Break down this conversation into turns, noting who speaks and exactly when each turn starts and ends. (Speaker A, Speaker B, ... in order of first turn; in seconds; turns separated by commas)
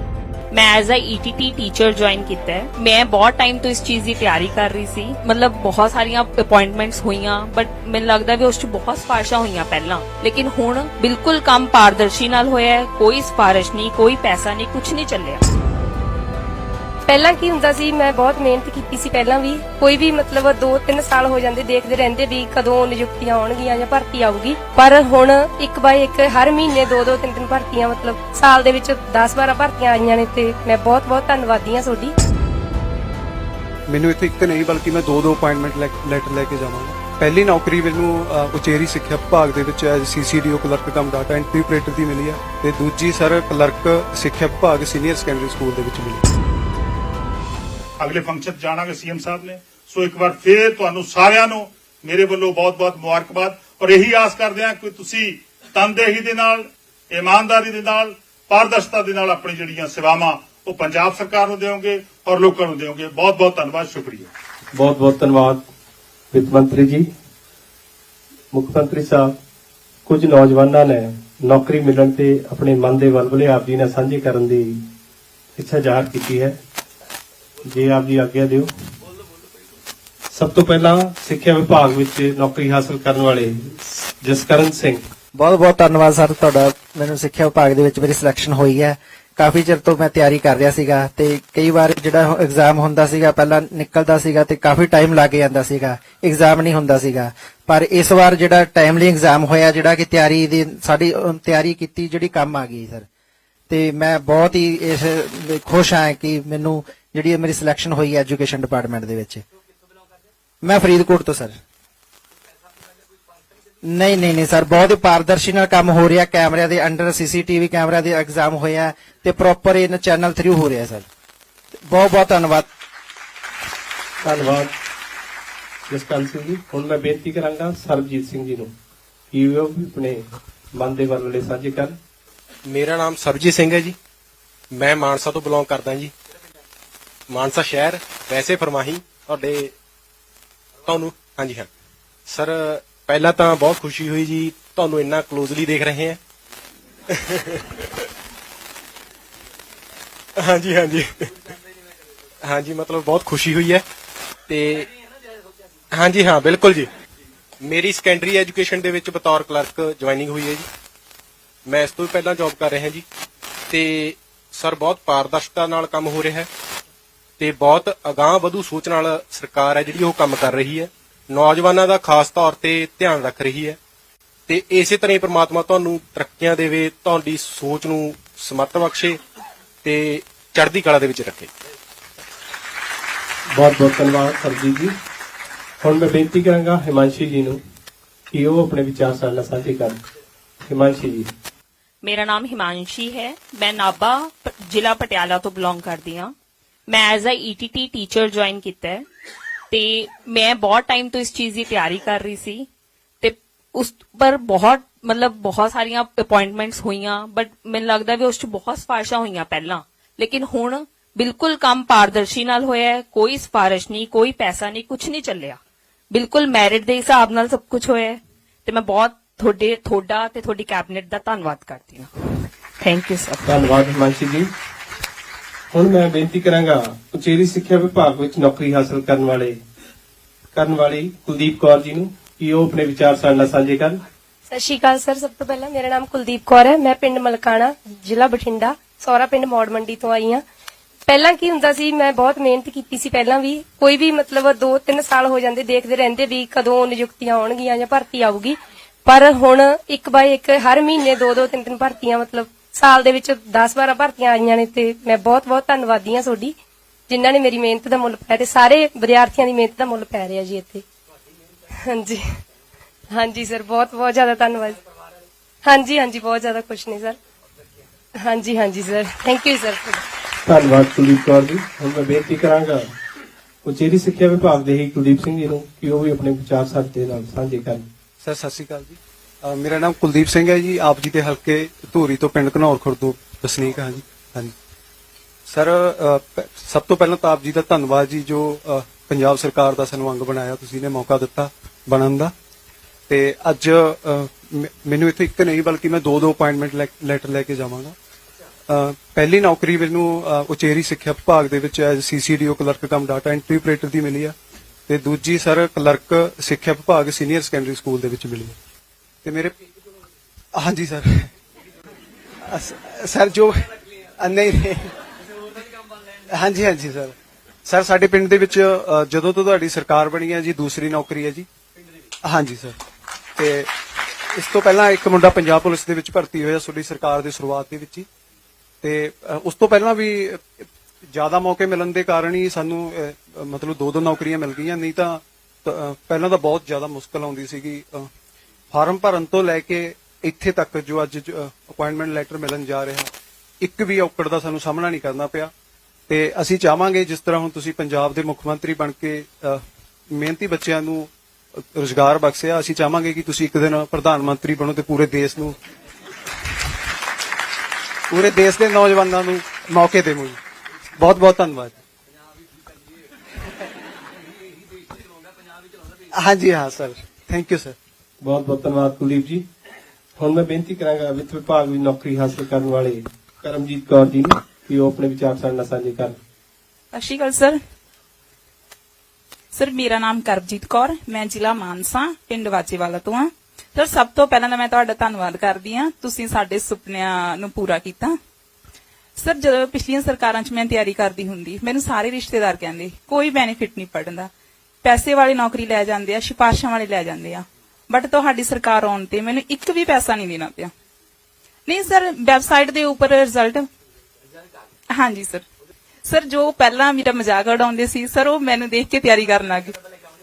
Speaker A: 0.5-15.4, Speaker B: 17.1-32.1, Speaker C: 33.9-46.2, Speaker D: 48.0-64.3, Speaker E: 64.7-65.7, Speaker E: 66.3-67.1, Speaker E: 68.5-69.3, Speaker E: 70.0-74.9, Speaker E: 75.5-76.6, Speaker E: 77.6-78.7, Speaker E: 80.3-85.0, Speaker F: 85.3-103.0, Speaker F: 103.7-109.4, Speaker F: 110.6-111.6, Speaker F: 113.8-121.1, Speaker F: 121.9-122.7, Speaker E: 124.2-124.7, Speaker E: 125.9-128.7, Speaker E: 129.3-132.0, Speaker G: 132.7-134.0, Speaker G: 134.7-136.1, Speaker G: 137.3-139.7, Speaker G: 140.8-141.7, Speaker G: 142.3-146.2, Speaker G: 147.1-147.8, Speaker G: 150.4-151.3, Speaker G: 152.4-153.8, Speaker G: 154.5-154.9, Speaker G: 155.9-156.9, Speaker G: 157.6-160.7, Speaker G: 161.7-163.0, Speaker G: 163.7-166.5, Speaker G: 167.4-173.8, Speaker G: 174.5-179.2, Speaker G: 179.8-181.5, Speaker E: 183.5-184.9, Speaker E: 185.8-187.6, Speaker E: 188.3-190.0, Speaker E: 190.7-191.3, Speaker A: 192.0-196.3, Speaker A: 196.9-199.0, Speaker A: 199.7-202.7, Speaker A: 203.2-215.6, Speaker A: 216.1-222.1, Speaker A: 222.8-223.6, Speaker E: 223.4-224.5, Speaker E: 225.7-229.6, Speaker E: 230.5-234.0, Speaker B: 234.5-240.4, Speaker B: 241.1-256.5, Speaker B: 257.1-260.8, Speaker B: 261.8-262.2, Speaker B: 263.1-264.8, Speaker B: 265.6-267.2, Speaker B: 268.2-270.0, Speaker E: 270.4-272.9, Speaker E: 273.6-277.9, Speaker C: 278.2-284.5, Speaker C: 285.5-292.3, Speaker C: 293.1-297.9, Speaker C: 298.7-304.3, Speaker C: 304.9-308.6, Speaker C: 309.2-309.5, Speaker C: 310.6-311.3, Speaker C: 312.4-314.9, Speaker C: 316.3-317.1, Speaker C: 317.6-321.5, Speaker C: 322.2-322.8, Speaker C: 323.4-323.7, Speaker C: 324.3-328.1, Speaker C: 328.8-338.1, Speaker C: 338.7-345.5, Speaker C: 346.1-351.1, Speaker C: 351.7-355.6, Speaker C: 358.1-360.4, Speaker C: 361.0-361.7, Speaker C: 366.1-367.8, Speaker E: 368.2-369.4, Speaker E: 370.2-376.2, Speaker H: 376.9-377.6, Speaker H: 379.5-388.1, Speaker H: 389.2-394.3, Speaker H: 394.8-400.7, Speaker H: 401.7-403.7, Speaker H: 404.9-405.4, Speaker H: 406.0-409.7